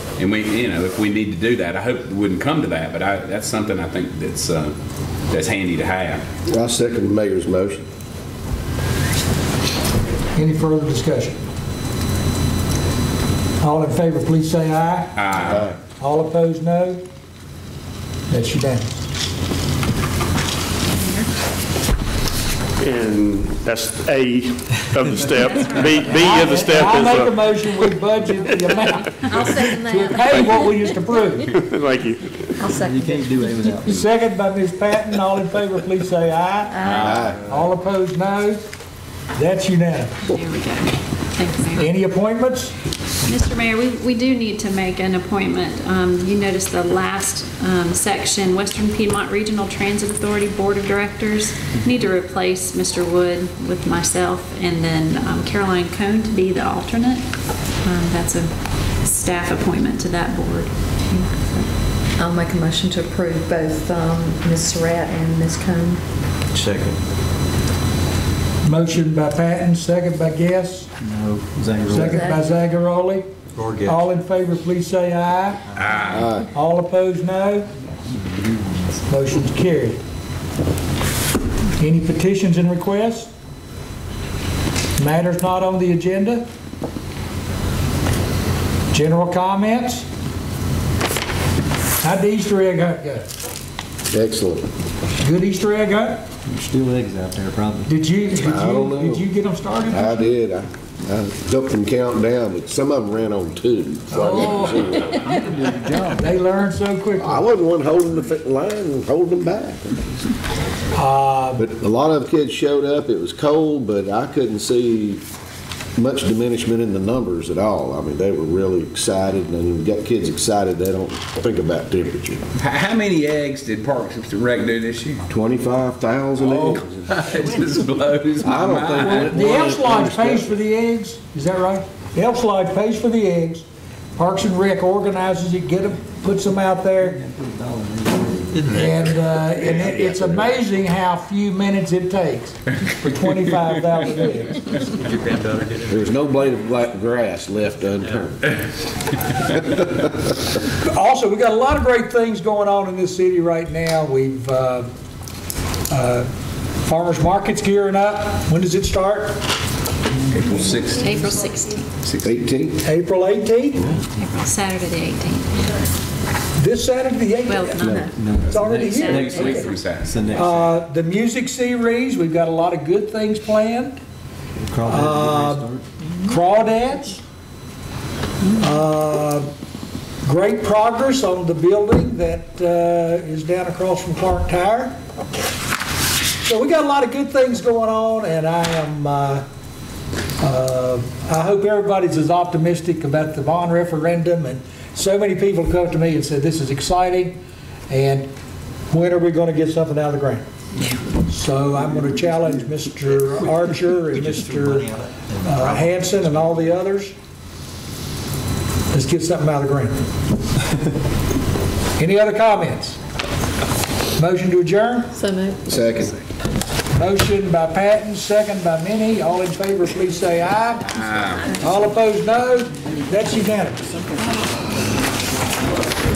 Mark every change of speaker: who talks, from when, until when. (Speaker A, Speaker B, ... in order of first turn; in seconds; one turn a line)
Speaker A: 0.2-4.8
Speaker A: 5.3-6.2
Speaker B: 6.5-7.8
Speaker C: 10.3-11.4
Speaker C: 13.6-15.1
Speaker A: 15.2-15.7
Speaker B: 15.4-15.8
Speaker C: 16.0-17.0
Speaker C: 18.3-18.9
Speaker D: 20.9-21.3
Speaker E: 22.8-27.4
Speaker D: 25.3-27.1
Speaker C: 26.1-31.6
Speaker F: 29.1-30.5
Speaker E: 31.6-32.5
Speaker F: 32.6-33.3
Speaker G: 32.7-34.0
Speaker C: 33.9-38.6
Speaker F: 36.7-37.3
Speaker A: 36.8-37.3
Speaker B: 36.9-37.4
Speaker C: 39.3-40.2
Speaker D: 40.2-41.9
Speaker C: 41.8-42.7
Speaker D: 43.2-60.7
Speaker F: 61.1-66.0
Speaker G: 66.5-67.0
Speaker C: 68.6-70.9
Speaker G: 71.0-72.2
Speaker C: 71.9-73.3
Speaker F: 71.9-72.4
Speaker G: 73.5-74.0
Speaker C: 73.8-75.6
Speaker A: 75.8-76.2
Speaker B: 76.1-76.5
Speaker C: 76.5-77.7
Speaker G: 78.3-78.8
Speaker C: 79.1-80.0
Speaker C: 81.8-83.3
Speaker C: 85.0-86.5
Speaker C: 88.9-90.0
Speaker C: 92.0-93.3
Speaker B: 94.1-94.7
Speaker C: 95.2-96.2
Speaker G: 96.5-97.9
Speaker C: 97.8-100.3
Speaker B: 98.3-99.2
Speaker B: 99.9-105.2
Speaker C: 104.1-107.4
Speaker B: 107.2-110.2
Speaker C: 110.9-111.6
Speaker B: 111.5-115.2
Speaker B: 116.0-122.4
Speaker A: 122.5-125.2
Speaker B: 125.3-127.1
Speaker A: 126.4-129.2
Speaker B: 128.4-130.5
Speaker C: 129.0-133.6
Speaker C: 134.2-137.2
Speaker G: 137.1-139.0
Speaker C: 138.7-144.7
Speaker B: 139.6-140.5
Speaker G: 144.9-146.1
Speaker B: 145.9-148.5
Speaker C: 150.8-154.9
Speaker C: 155.9-156.3
Speaker C: 156.8-159.4
Speaker A: 160.3-161.2
Speaker D: 161.0-161.9
Speaker A: 162.0-162.3
Speaker B: 162.2-162.8
Speaker C: 162.8-163.9
Speaker D: 164.2-165.8
Speaker C: 166.6-169.6
Speaker D: 167.5-169.7
Speaker B: 167.8-168.1
Speaker G: 168.2-170.7
Speaker A: 169.0-170.3
Speaker C: 170.3-174.0
Speaker G: 174.6-175.8
Speaker C: 174.8-175.7
Speaker C: 176.2-177.2
Speaker C: 178.6-179.5
Speaker C: 180.2-184.9
Speaker C: 186.4-189.4
Speaker C: 190.4-197.4
Speaker C: 197.9-198.3
Speaker C: 198.9-200.4
Speaker C: 201.2-207.1
Speaker C: 208.9-210.0
Speaker C: 212.0-213.0
Speaker C: 214.2-215.2
Speaker F: 215.2-215.7
Speaker B: 215.7-216.2
Speaker C: 216.9-221.0
Speaker A: 220.9-221.6
Speaker C: 221.5-223.9